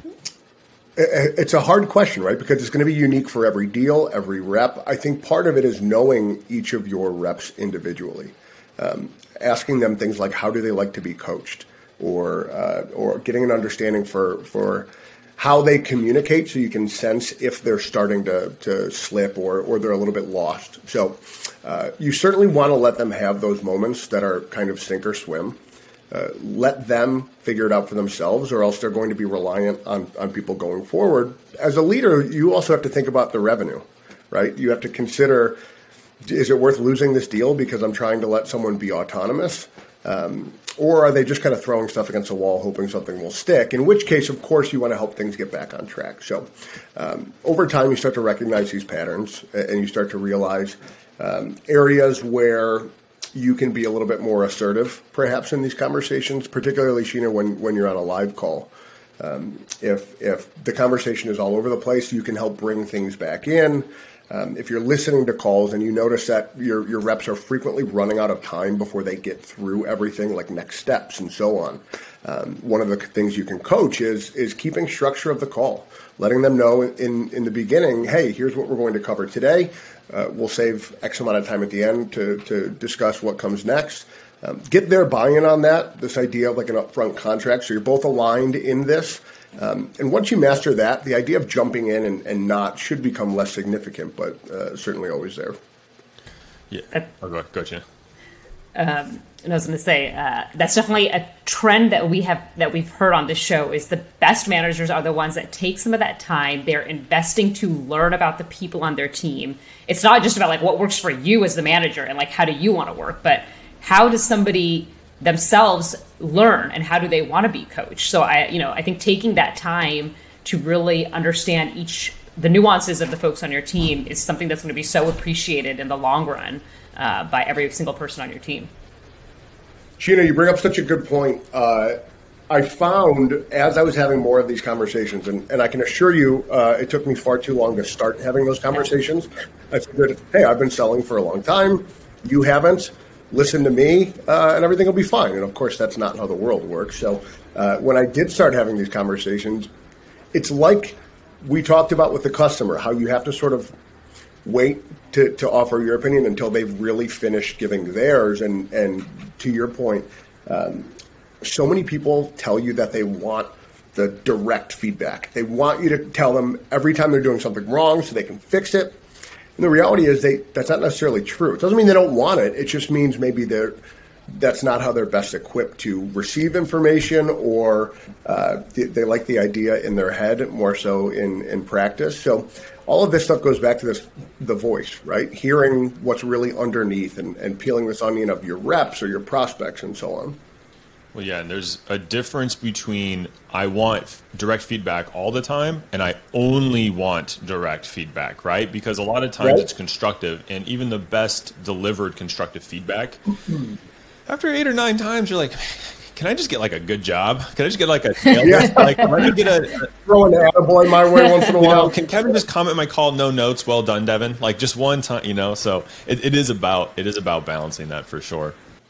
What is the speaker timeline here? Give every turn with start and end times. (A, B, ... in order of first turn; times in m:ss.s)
0:01.0-0:25.6 A
0:26.1-0:35.6 A
0:36.2-1:35.6 A
1:36.7-1:37.8 B
1:38.8-2:08.7 C
2:10.0-2:12.0 A
2:12.5-2:29.7 A
2:30.3-2:33.7 A
2:34.4-2:49.0 A
2:49.6-2:53.8 A
2:54.3-3:10.4 A
3:11.1-3:23.2 B
3:19.4-3:19.7 A
3:24.3-3:29.9 B
3:28.4-3:29.3 A
3:30.0-3:32.0 A
3:31.5-3:38.6 B